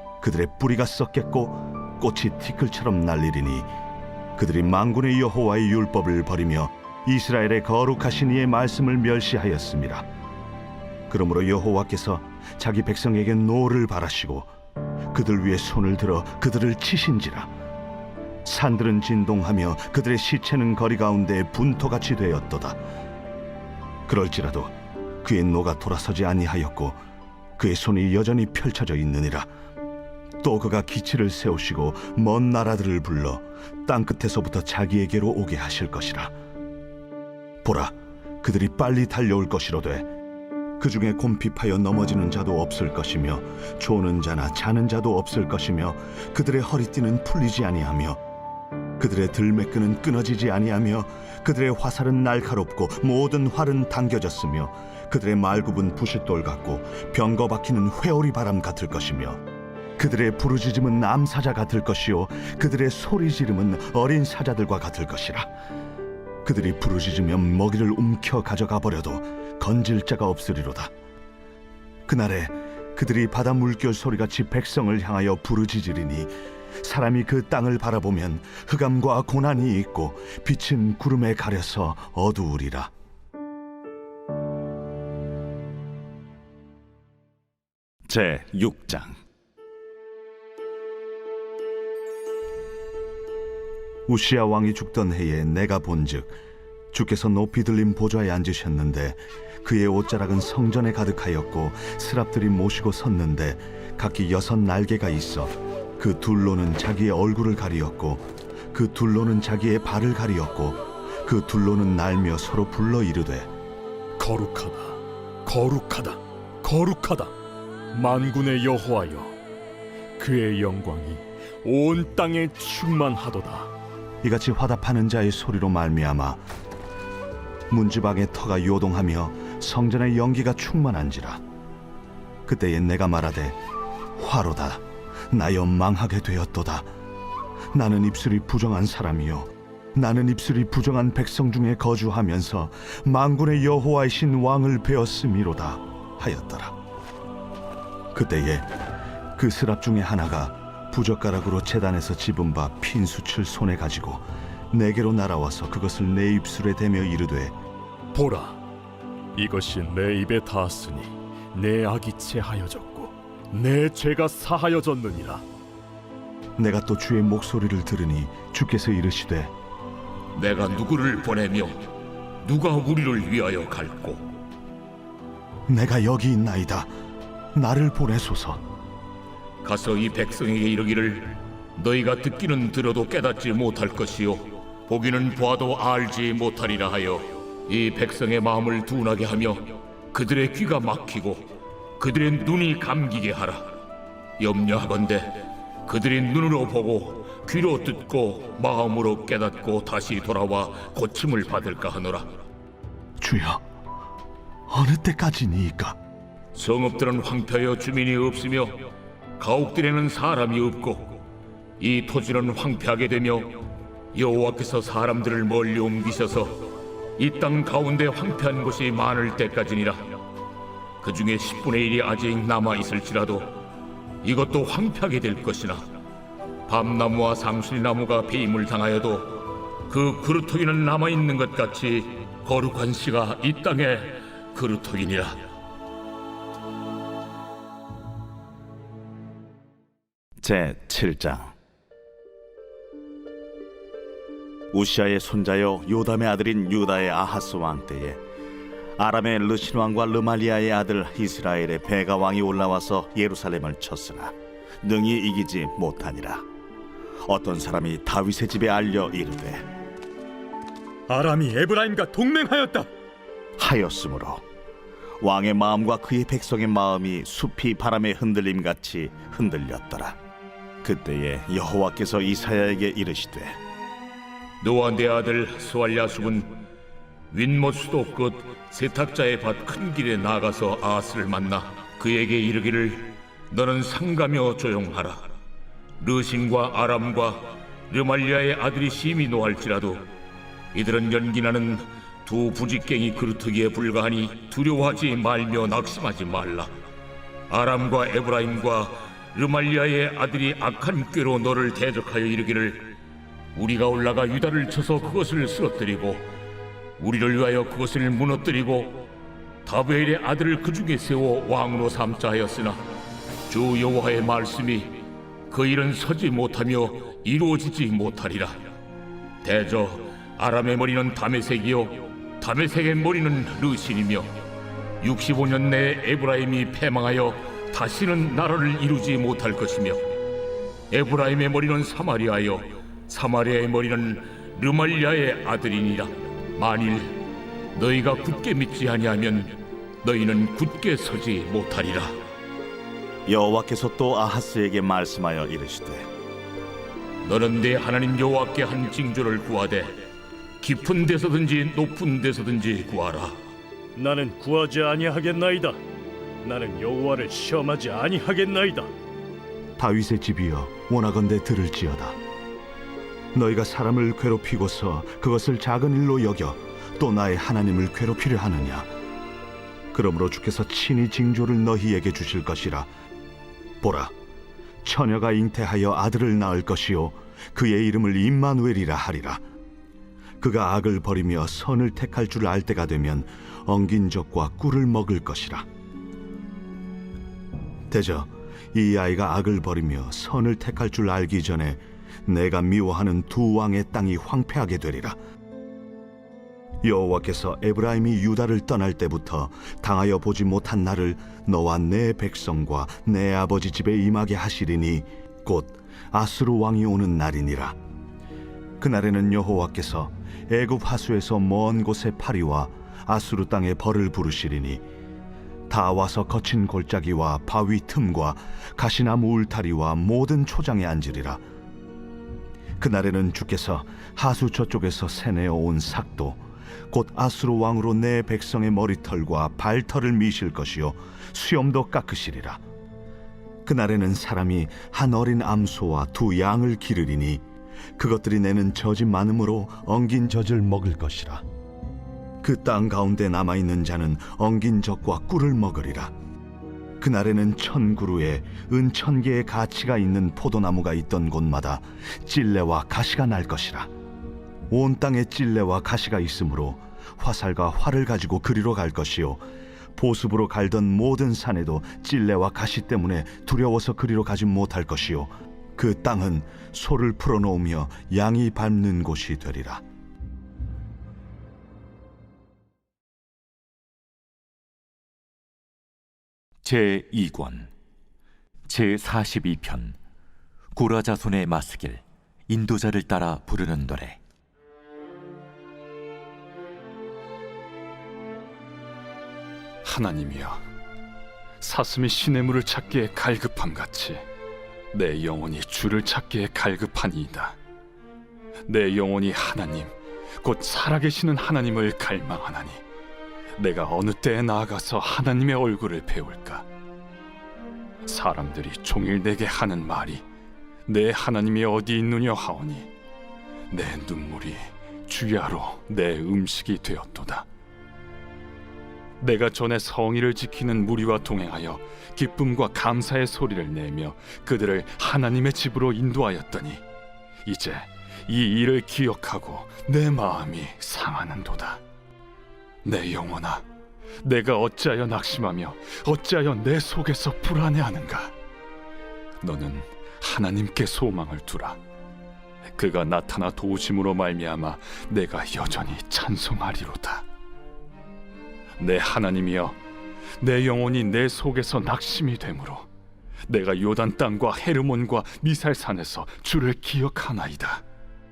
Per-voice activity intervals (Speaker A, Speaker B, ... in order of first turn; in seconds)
Speaker A: 0.2-3.7, 4.4-10.1, 11.1-14.5, 15.1-17.5, 18.4-22.8, 24.1-27.0, 27.6-29.5, 30.4-36.3, 37.6-40.1, 40.8-48.2, 49.0-59.4, 60.0-65.5, 66.5-70.9, 72.1-82.9, 94.1-96.4, 96.9-113.5, 124.2-126.4, 127.7-131.4, 132.5-133.6, 134.2-136.9, 137.7-146.8, 148.1-148.7, 149.4-157.6, 166.6-169.5, 175.7-176.9, 177.5-178.6, 203.2-203.6, 204.7-206.0, 359.8-362.2, 363.3-368.9, 369.9-372.9, 373.8-374.1, 374.8-379.4, 380.4-385.7, 387.9-395.2, 396.8-407.8, 408.8-414.8, 415.7-421.4, 422.8-432.6, 433.6-437.4, 438.0-441.4, 442.4-446.1, 447.0-453.9, 454.7-459.4, 460.0-469.8
Speaker B: 88.1-89.2, 240.4-241.6, 244.7-248.2, 249.0-256.4, 257.2-259.6, 263.6-264.4, 265.2-270.2, 270.8-273.6, 343.3-346.1
Speaker C: 114.2-117.3, 117.9-119.4, 120.2-123.7, 158.2-158.6, 159.4-165.4, 261.1-262.9, 354.0-355.8, 356.4-358.9
Speaker D: 170.3-171.8, 172.4-174.2, 179.6-193.7, 194.4-202.3, 206.6-208.9, 209.4-211.2, 211.8-213.6, 214.1-216.7, 217.2-220.2, 221.0-223.5, 224.2-225.8, 226.7-235.4, 274.6-276.6, 277.3-285.3, 286.0-290.0, 290.7-296.7, 297.5-302.9, 303.6-306.3, 307.0-309.0, 309.7-312.8, 313.5-314.9, 315.5-318.6, 319.4-324.3, 325.0-330.1, 330.9-337.1, 337.8-342.1, 347.2-350.0, 350.6-353.4
Speaker E: 476.6-477.7, 478.7-480.0, 480.8-484.2
Speaker F: 489.9-490.6, 491.6-494.2, 494.9-497.6, 498.7-502.8, 503.6-506.6, 508.1-510.2, 510.9-512.9, 513.7-517.5, 519.2-526.8, 527.5-531.8, 532.8-533.6, 534.2-538.3, 539.4-541.8, 542.8-547.2, 548.8-549.8, 550.4-552.9, 553.5-557.8